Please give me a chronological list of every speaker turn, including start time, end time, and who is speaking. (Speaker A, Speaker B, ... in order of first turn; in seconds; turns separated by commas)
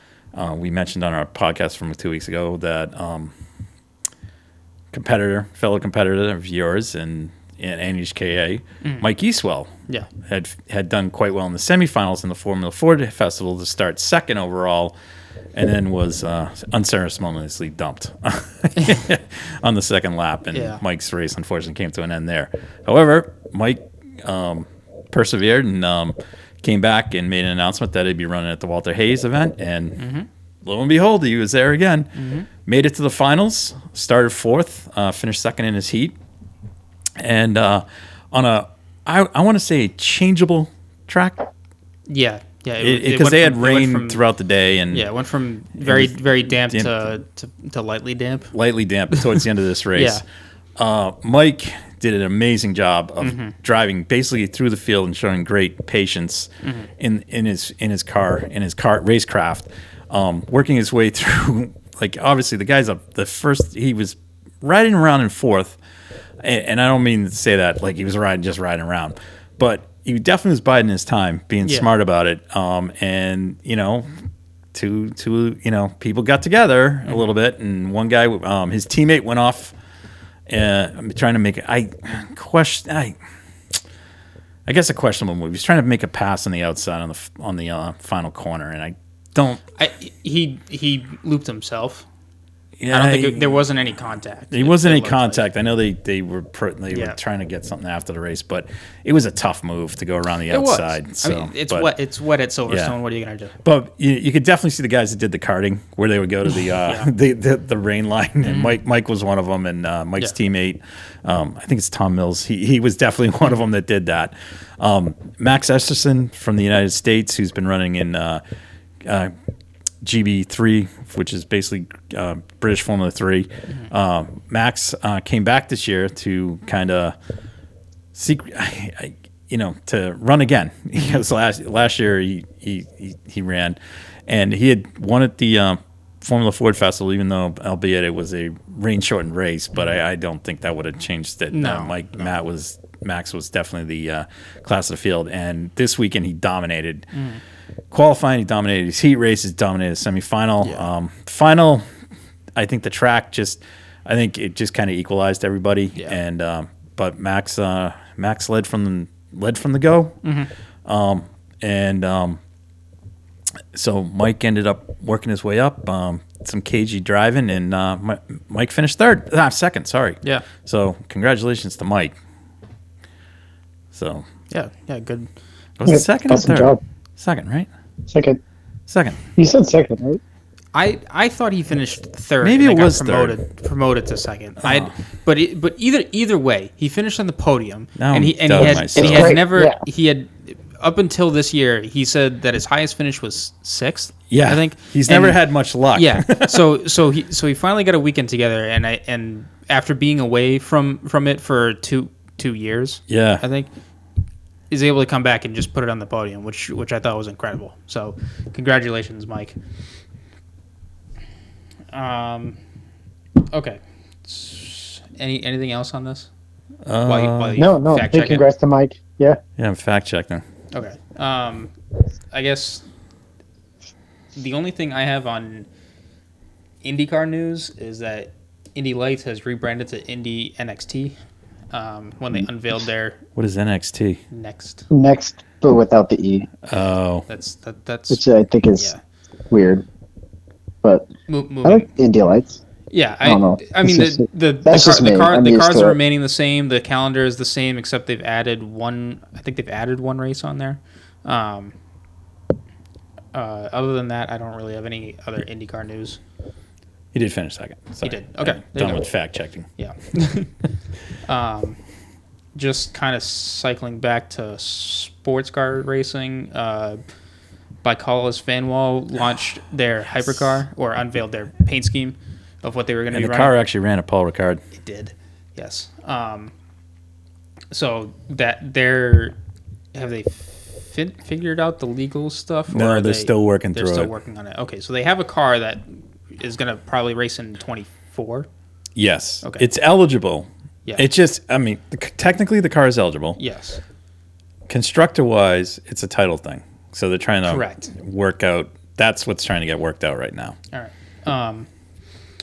Speaker A: 0.3-3.3, Speaker A: 4.9-15.0, Speaker A: 15.6-30.0, Speaker B: 20.5-20.8, Speaker B: 30.0-30.3, Speaker A: 30.6-36.2, Speaker B: 32.2-32.5, Speaker A: 37.2-41.5, Speaker B: 42.1-44.2, Speaker A: 42.8-45.1, Speaker B: 44.9-48.5, Speaker A: 45.8-47.0, Speaker A: 48.5-50.2, Speaker B: 49.1-49.4, Speaker B: 50.0-50.2, Speaker A: 50.8-65.8, Speaker B: 53.2-53.5, Speaker B: 56.6-56.9, Speaker A: 66.4-74.1, Speaker A: 74.7-79.7, Speaker B: 77.0-77.3, Speaker A: 80.5-83.2, Speaker A: 84.7-89.6, Speaker B: 89.8-92.1, Speaker A: 92.8-93.6, Speaker B: 92.9-95.4, Speaker A: 94.5-101.9, Speaker B: 96.9-97.2, Speaker B: 100.5-103.5, Speaker A: 102.7-103.0, Speaker A: 103.6-118.4, Speaker B: 106.8-107.1, Speaker B: 108.4-108.8, Speaker A: 119.0-119.3, Speaker A: 120.0-127.2, Speaker A: 128.2-147.1, Speaker B: 141.5-142.3, Speaker B: 147.1-147.4, Speaker A: 147.9-151.8, Speaker B: 150.6-150.9, Speaker A: 152.6-160.2, Speaker B: 160.2-160.5, Speaker A: 160.8-162.4, Speaker A: 163.7-172.2, Speaker A: 173.9-174.2, Speaker B: 174.5-175.3, Speaker A: 175.8-177.7, Speaker C: 175.9-176.8, Speaker C: 178.1-178.4, Speaker A: 178.9-179.2, Speaker C: 179.4-180.2, Speaker B: 180.7-195.4, Speaker A: 182.4-183.4, Speaker A: 184.6-184.9, Speaker A: 188.0-189.4, Speaker C: 189.0-189.8, Speaker A: 194.3-196.6, Speaker B: 195.9-203.7, Speaker A: 203.1-203.4, Speaker B: 204.7-209.6, Speaker B: 211.9-212.6, Speaker B: 213.5-216.3, Speaker A: 216.9-217.6, Speaker B: 217.1-218.4, Speaker C: 217.6-219.4, Speaker A: 219.6-220.4, Speaker B: 220.7-221.7, Speaker B: 222.3-222.8, Speaker B: 224.3-225.7, Speaker B: 226.8-231.2, Speaker B: 231.7-233.2, Speaker A: 233.4-234.2, Speaker B: 234.3-234.9, Speaker C: 234.9-236.5, Speaker A: 236.7-237.3, Speaker B: 237.3-238.2, Speaker C: 238.1-238.9, Speaker C: 239.5-239.8, Speaker C: 240.8-241.1, Speaker B: 241.3-241.9, Speaker C: 241.6-242.6, Speaker B: 242.9-251.8, Speaker C: 243.2-246.0, Speaker B: 253.3-256.2, Speaker A: 257.1-259.7, Speaker B: 258.0-259.1, Speaker B: 259.8-260.5, Speaker B: 261.2-261.8, Speaker B: 262.6-267.0, Speaker B: 267.8-273.5, Speaker A: 273.1-274.6, Speaker B: 274.7-276.5, Speaker B: 277.7-279.4, Speaker B: 279.9-288.5, Speaker A: 282.7-284.1, Speaker A: 289.0-293.4, Speaker B: 293.4-293.8, Speaker A: 294.7-300.6, Speaker B: 297.5-297.9, Speaker B: 300.7-301.7